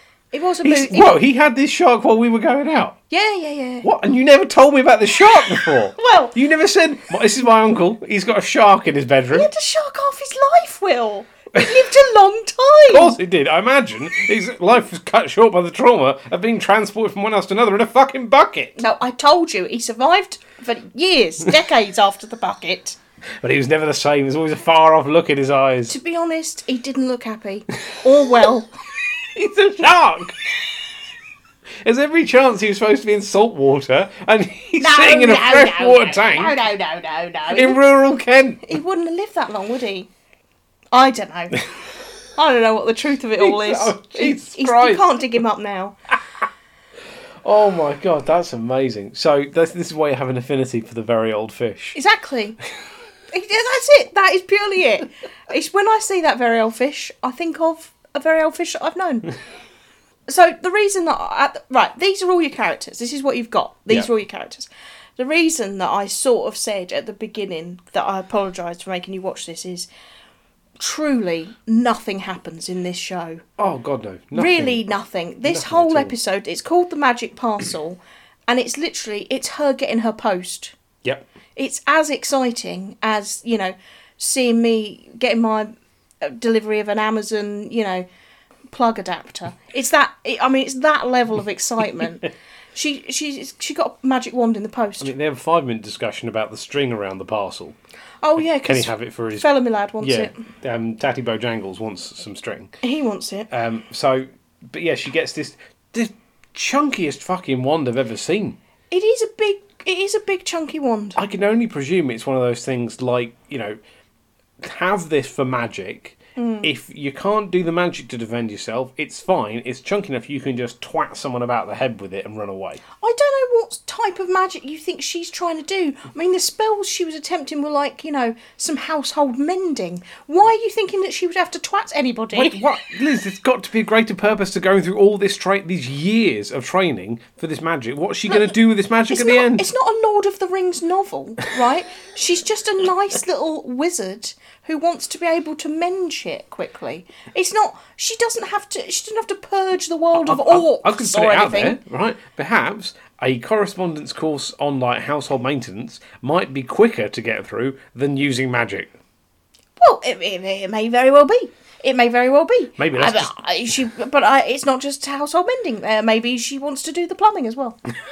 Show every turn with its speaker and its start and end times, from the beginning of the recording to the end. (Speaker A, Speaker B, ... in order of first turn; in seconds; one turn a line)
Speaker A: 0.3-1.1
Speaker B: 0.6-3.0
Speaker A: 3.1-3.9
Speaker B: 3.8-9.5
Speaker A: 5.9-6.3
Speaker A: 9.3-13.2
Speaker B: 12.9-18.8
Speaker A: 18.8-23.0
Speaker B: 23.4-25.9
Speaker A: 25.9-28.7
Speaker B: 29.2-30.4
Speaker B: 31.8-36.6
Speaker A: 34.8-37.8
Speaker B: 37.5-38.8
Speaker A: 38.6-40.1
Speaker A: 40.9-41.7
Speaker A: 42.3-46.0
Speaker B: 43.4-45.0
Speaker B: 47.4-52.0
Speaker A: 51.9-52.6
Speaker A: 53.3-59.3
Speaker A: 60.3-69.9
Speaker A: 70.8-73.4
Speaker B: 73.6-74.8
Speaker A: 74.3-80.7
Speaker B: 75.4-76.1
Speaker A: 81.5-88.0
Speaker A: 88.7-95.1
Speaker B: 95.0-97.8
Speaker A: 98.2-100.3
Speaker B: 98.5-99.5
Speaker B: 100.0-102.8
Speaker A: 102.8-103.5
Speaker B: 103.5-108.6
Speaker A: 108.9-111.2
Speaker B: 111.2-113.8
Speaker B: 114.6-122.8
Speaker A: 116.3-116.7
Speaker A: 123.0-132.6
Speaker B: 132.3-139.7
Speaker A: 139.1-151.8
Speaker B: 150.2-158.9
Speaker A: 159.8-167.8
Speaker B: 162.8-163.3